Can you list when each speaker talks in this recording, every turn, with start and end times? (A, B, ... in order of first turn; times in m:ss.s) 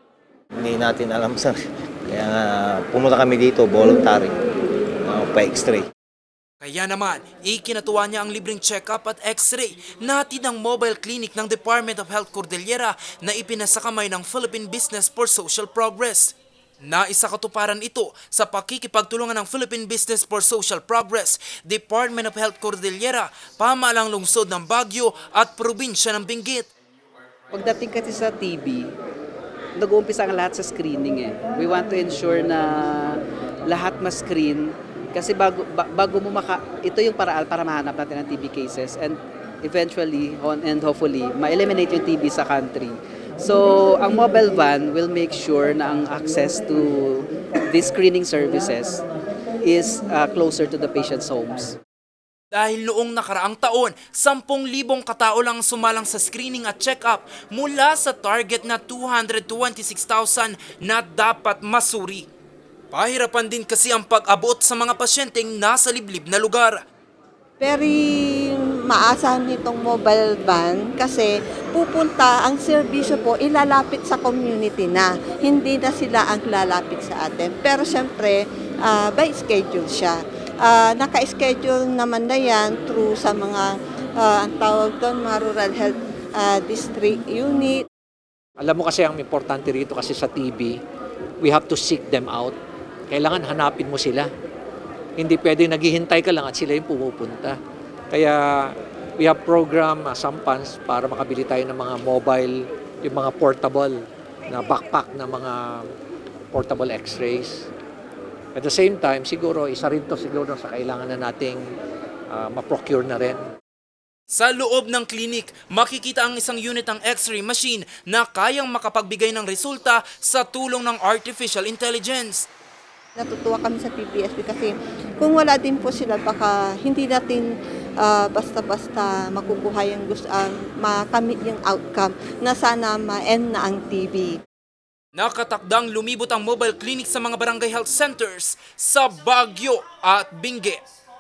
0:00.6-0:04.4 A
0:05.1-0:05.9 A
0:06.6-0:26.7 B
0:27.5-0:28.9 C
0:29.8-0:49.0 C
0:49.6-0:51.7 C
0:52.5-1:02.3 B
1:02.9-1:06.8 B
1:07.6-1:27.8 D
1:28.6-1:30.8 E
1:31.4-1:32.6 E
1:33.1-1:34.3 E
1:35.2-1:37.6 E
1:38.1-1:45.9 E
1:46.5-1:47.6 E
1:48.6-1:51.6 E
1:52.3-1:53.4 E
1:54.3-2:02.5 B
2:03.2-2:07.5 D
2:08.0-2:14.4 D
2:15.2-2:20.8 B